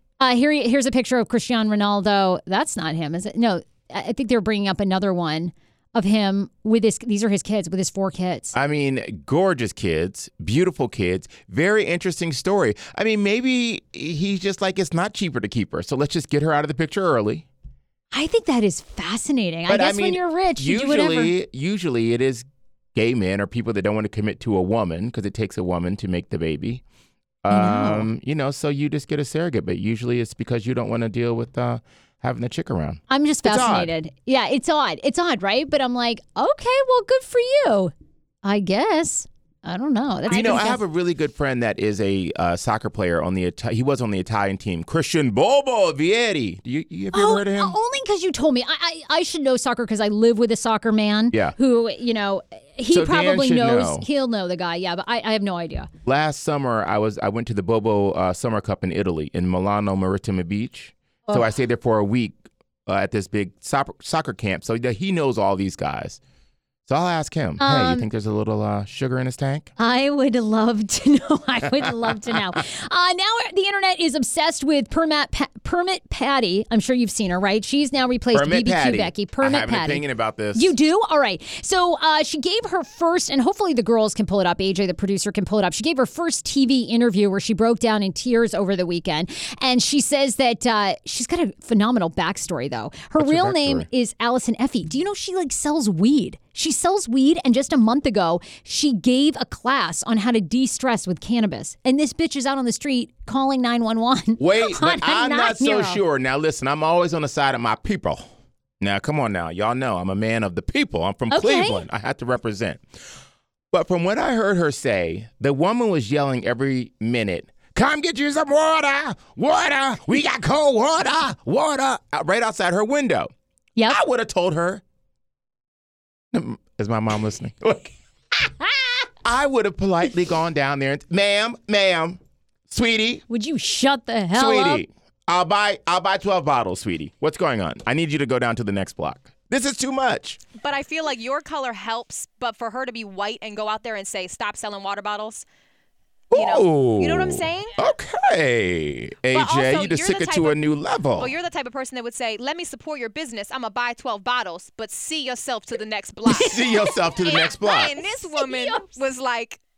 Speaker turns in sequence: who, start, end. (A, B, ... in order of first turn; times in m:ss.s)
0:00.2-0:08.5 A
0:08.5-0:17.5 B
0:18.1-0:21.3 A
0:19.7-0:26.8 B
0:27.4-0:33.9 B
0:27.5-0:28.1 A
0:33.1-0:37.9 A
0:38.4-0:40.8 A
0:40.3-0:47.8 B
0:47.1-0:55.9 A
0:52.9-0:54.1 B
0:56.0-1:06.2 B
1:06.9-1:09.7 B
1:07.6-1:08.1 A
1:09.8-1:20.0 A
1:11.6-1:12.4 B
1:18.3-1:20.8 B
1:20.6-1:46.0 A
1:33.2-1:33.9 B
1:44.4-1:52.9 B
1:51.3-1:51.8 A
1:53.7-2:03.3 B
2:03.9-2:04.8 B
2:06.3-2:08.5 B
2:09.2-2:13.2 B
2:13.3-2:14.8 A
2:14.3-2:20.4 B
2:20.6-2:25.4 C
2:26.3-2:31.3 B
2:26.3-2:27.8 C
2:29.3-2:30.6 C
2:31.2-2:36.7 C
2:36.3-2:38.0 B
2:37.2-2:39.6 C
2:38.0-2:38.9 A